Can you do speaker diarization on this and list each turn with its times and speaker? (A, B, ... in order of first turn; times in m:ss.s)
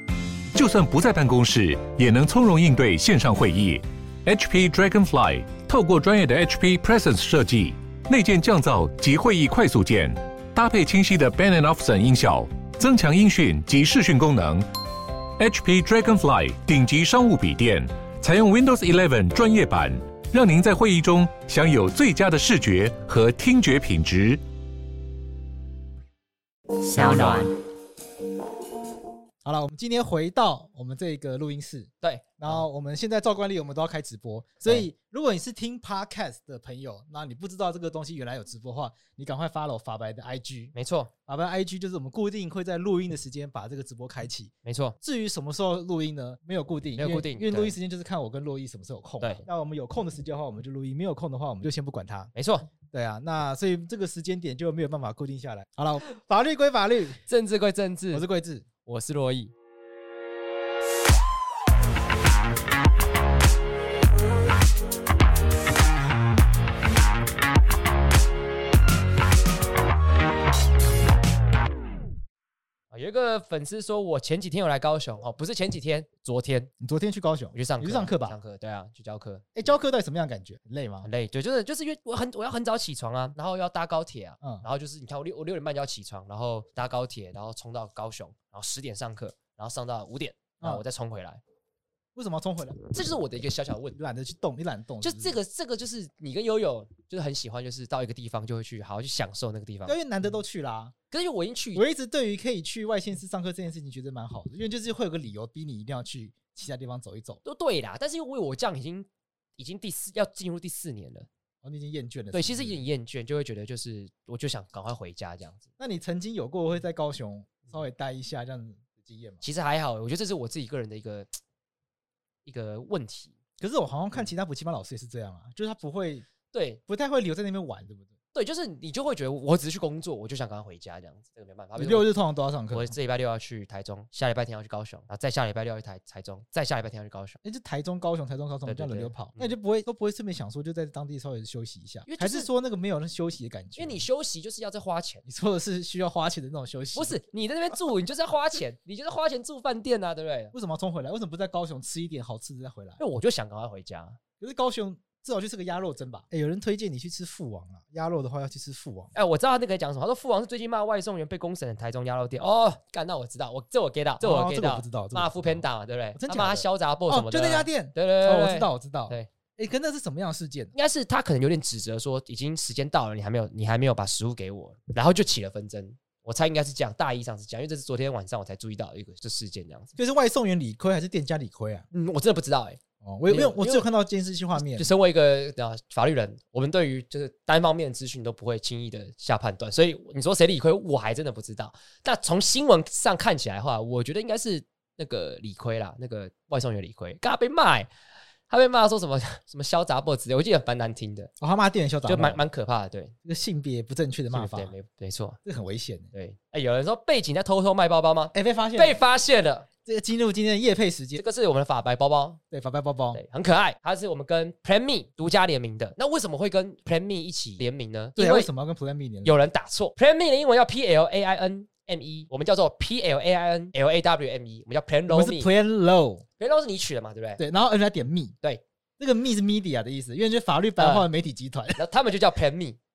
0:00.5-0:14.7 A
0:15.4-0:24.4 A
0:26.8-0:27.5 B
0:27.0-0:27.4 A
0:29.4-0:40.7 C
0:32.0-0:32.6 B
0:40.7-0:41.1 B
0:41.3-0:52.3 C
0:44.6-0:45.0 B
0:47.0-0:47.7 B
0:52.3-0:52.7 B
0:52.9-0:57.2 C
0:57.3-0:58.3 B
0:58.1-0:58.7 C
0:58.8-0:59.5 B
1:12.9-1:16.7 B
1:16.8-1:18.4 C
1:17.5-1:19.5 B
1:19.6-1:21.1 C
1:21.0-1:31.4 B
1:32.2-1:32.9 C
1:32.9-1:34.0 B
1:34.0-1:35.4 C
1:35.0-1:40.0 B
1:39.9-1:40.9 C
1:41.1-1:41.8 B
1:41.8-1:47.4 C
1:47.4-1:51.3 B
1:51.6-1:52.8 C
1:52.3-1:55.7 B
1:55.8-1:59.4 C
1:59.4-2:01.3 B
2:02.4-2:03.4 B
2:03.6-2:06.2 C
2:06.5-2:06.8 B
2:06.9-2:08.1 C
2:08.3-2:12.1 B
2:11.8-2:12.9 C
2:12.7-2:17.4 B
2:17.4-2:24.0 C
2:18.6-2:19.5 B
2:22.1-2:22.5 B
2:23.8-2:25.2 B
2:25.2-2:27.2 C
2:26.9-2:30.5 B
2:30.5-2:33.0 C
2:33.0-2:34.2 B
2:34.4-2:39.1 C
2:39.1-2:49.3 B
2:44.2-2:45.6 C
2:46.2-2:50.7 C
2:50.7-2:59.9 B
3:00.0-3:01.9 C
3:01.9-3:03.8 B
3:03.0-3:04.9 C
3:04.6-3:17.9 B
3:18.5-3:21.3 B
3:21.4-3:22.4 C
3:22.1-3:23.1 B
3:23.2-3:24.7 C
3:24.3-3:25.4 B
3:25.4-3:26.1 C
3:26.1-3:29.7 B
3:28.3-3:29.0 C
3:29.8-3:31.2 C
3:31.2-3:32.4 B
3:32.5-3:33.2 C
3:33.1-3:38.5 B
3:38.2-3:39.3 C
3:39.2-3:45.5 B
3:45.1-3:46.2 C
3:46.4-3:47.4 B
3:47.4-3:48.3 C
3:49.0-3:51.8 C
3:50.8-3:51.1 B
3:51.8-3:52.8 B